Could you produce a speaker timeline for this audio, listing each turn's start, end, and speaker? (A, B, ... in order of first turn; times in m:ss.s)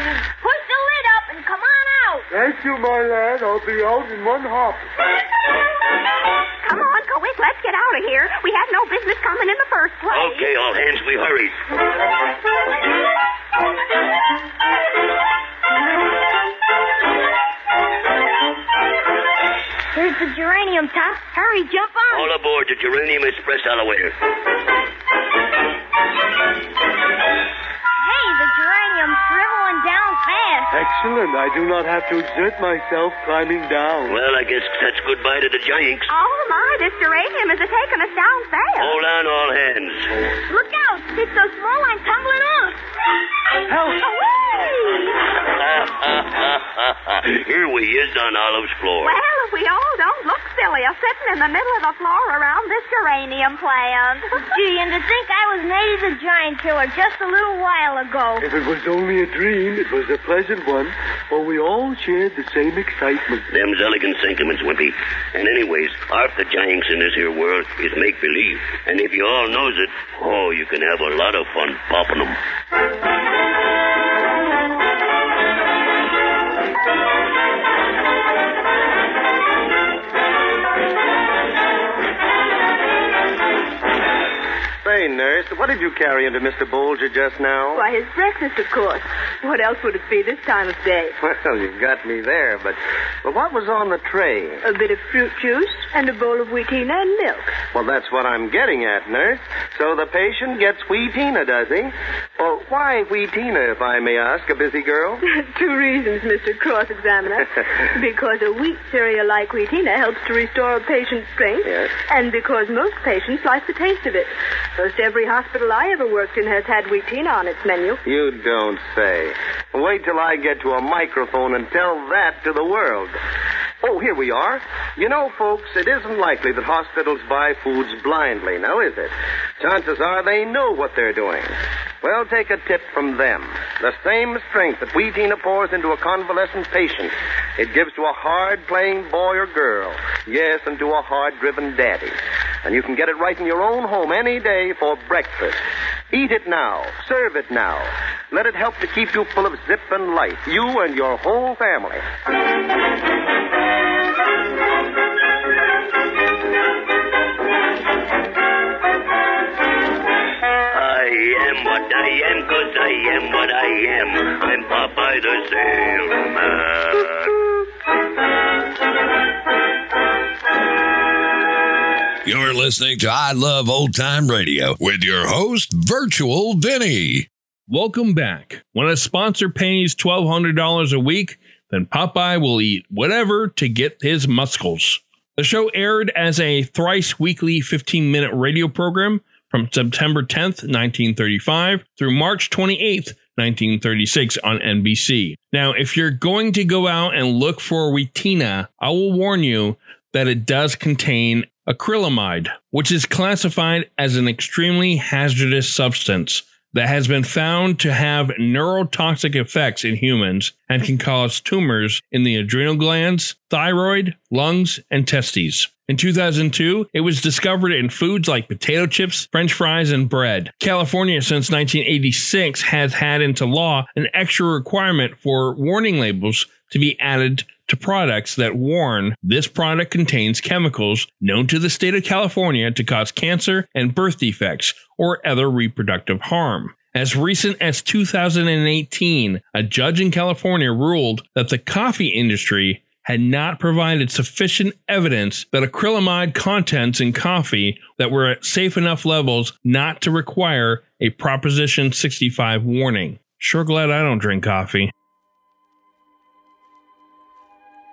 0:00.4-0:02.3 A
0:02.3-0:04.9 B
0:06.6-0:10.4 C
0:10.1-0:11.6 D
0:19.9-0:22.3 A
0:22.1-0:24.1 D
0:28.0-0:30.7 A
0:30.7-0:34.2 B
0:34.1-0:36.1 D
0:36.1-0:39.0 C
0:38.8-0:40.1 D
0:40.5-0:42.7 A
0:43.7-0:44.0 B
0:44.0-0:45.1 C
0:45.4-0:49.2 D
0:49.0-0:54.3 C
0:54.3-0:58.4 A
0:58.4-1:03.5 B
1:03.5-1:12.4 D
1:24.8-1:27.8 E
1:27.7-1:31.1 F
1:31.2-1:34.6 E
1:34.6-1:37.5 F
1:37.7-1:45.2 E
1:45.2-1:58.0 F
1:51.6-1:51.9 E
1:58.0-2:03.2 E
2:03.8-2:32.0 E
2:40.7-2:47.4 D
2:52.2-2:57.3 G
2:57.7-4:14.9 H